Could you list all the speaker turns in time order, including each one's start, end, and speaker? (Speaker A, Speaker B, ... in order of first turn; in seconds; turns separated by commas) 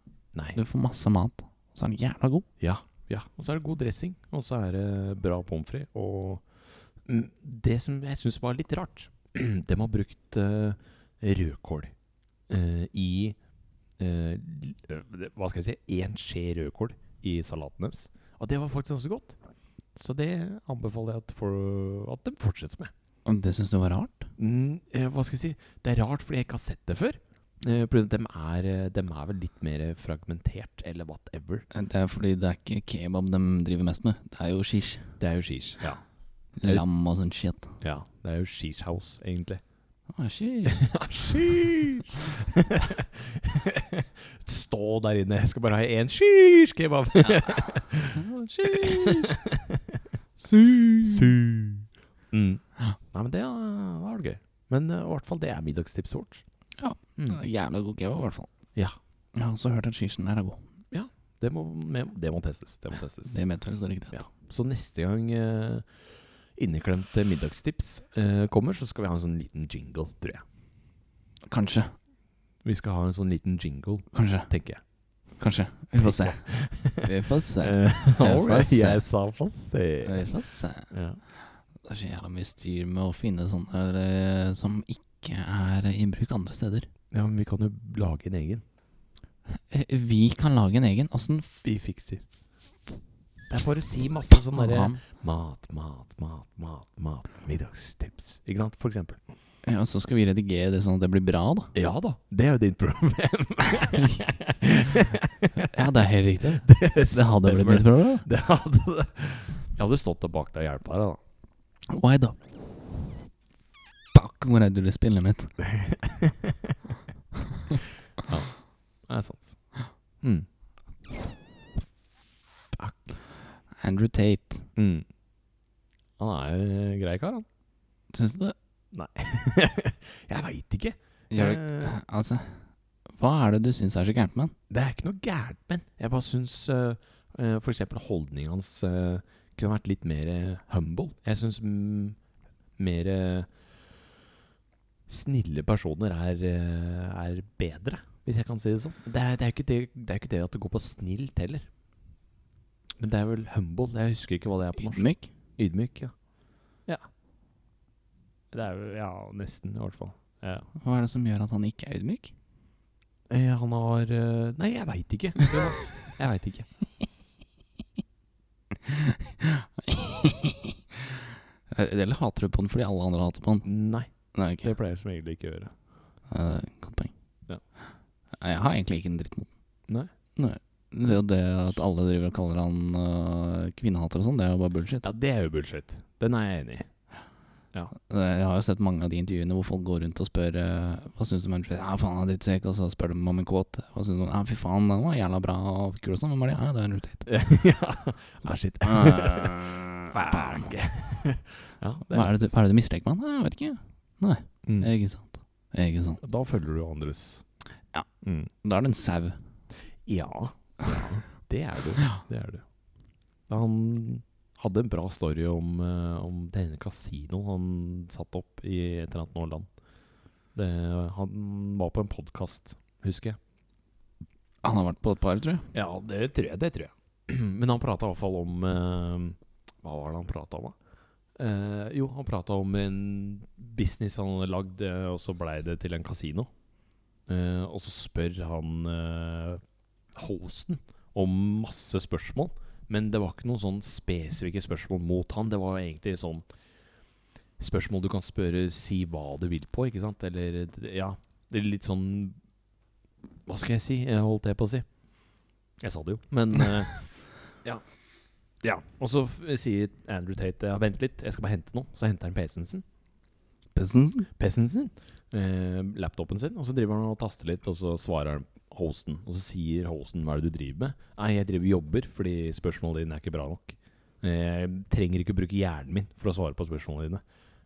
Speaker A: 0.3-0.6, Speaker B: 0.5-2.5, Speaker A: 2.6-6.5, Speaker A: 7.0-11.9, Speaker A: 12.5-13.4, Speaker A: 14.0-19.4, Speaker A: 19.9-22.9, Speaker B: 23.2-24.3, Speaker A: 24.4-31.6, Speaker B: 31.7-35.1, Speaker A: 35.2-36.0, Speaker B: 36.6-37.8, Speaker A: 37.8-39.6, Speaker B: 40.1-40.9, Speaker A: 40.6-49.8, Speaker B: 48.1-49.3, Speaker B: 50.4-51.3, Speaker A: 51.0-56.4, Speaker B: 56.8-58.5, Speaker B: 59.3-60.6, Speaker A: 60.9-63.4, Speaker B: 63.3-64.2, Speaker A: 64.1-65.9, Speaker A: 66.5-70.4, Speaker B: 71.5-71.9, Speaker A: 72.6-74.8, Speaker B: 74.1-74.5, Speaker B: 75.3-79.0, Speaker A: 76.0-80.3, Speaker B: 80.0-86.9, Speaker A: 80.9-81.2, Speaker A: 87.1-88.6, Speaker B: 89.5-91.5, Speaker A: 91.6-92.2, Speaker A: 93.5-99.2, Speaker B: 94.5-95.0, Speaker B: 99.6-101.7, Speaker A: 101.7-105.7, Speaker B: 105.6-108.2, Speaker A: 106.6-111.2, Speaker B: 111.9-112.4, Speaker B: 114.1-115.5, Speaker A: 115.6-116.8, Speaker A: 118.2-119.6, Speaker A: 120.2-120.5, Speaker A: 122.7-123.1, Speaker B: 123.8-124.7, Speaker A: 124.8-125.0, Speaker A: 126.2-127.5, Speaker B: 128.1-128.5, Speaker A: 128.9-132.0, Speaker B: 131.3-132.7, Speaker B: 133.2-134.5, Speaker A: 134.7-142.2, Speaker A: 142.8-143.5, Speaker A: 145.1-151.7, Speaker A: 153.0-156.1, Speaker B: 154.8-155.3, Speaker A: 158.5-160.7, Speaker B: 160.8-162.3, Speaker A: 163.3-166.7, Speaker B: 168.9-170.8, Speaker B: 171.7-173.7, Speaker A: 173.6-174.1, Speaker B: 174.3-174.7, Speaker A: 174.6-175.7, Speaker B: 176.3-177.1, Speaker B: 178.4-179.5, Speaker B: 180.3-185.0, Speaker A: 185.0-186.9, Speaker B: 187.9-197.2, Speaker A: 197.2-202.5, Speaker B: 198.8-200.7, Speaker B: 202.1-206.2, Speaker A: 206.2-207.4, Speaker A: 208.2-208.5, Speaker B: 208.6-209.4, Speaker A: 210.0-212.6, Speaker A: 213.5-219.7, Speaker A: 220.5-223.4, Speaker B: 224.6-225.7, Speaker A: 225.7-230.8, Speaker A: 231.3-236.5, Speaker A: 237.3-239.6, Speaker A: 240.1-246.4, Speaker A: 247.6-252.4, Speaker A: 253.4-254.9, Speaker A: 255.8-257.8, Speaker A: 258.6-262.8, Speaker B: 263.7-264.3, Speaker A: 264.4-277.2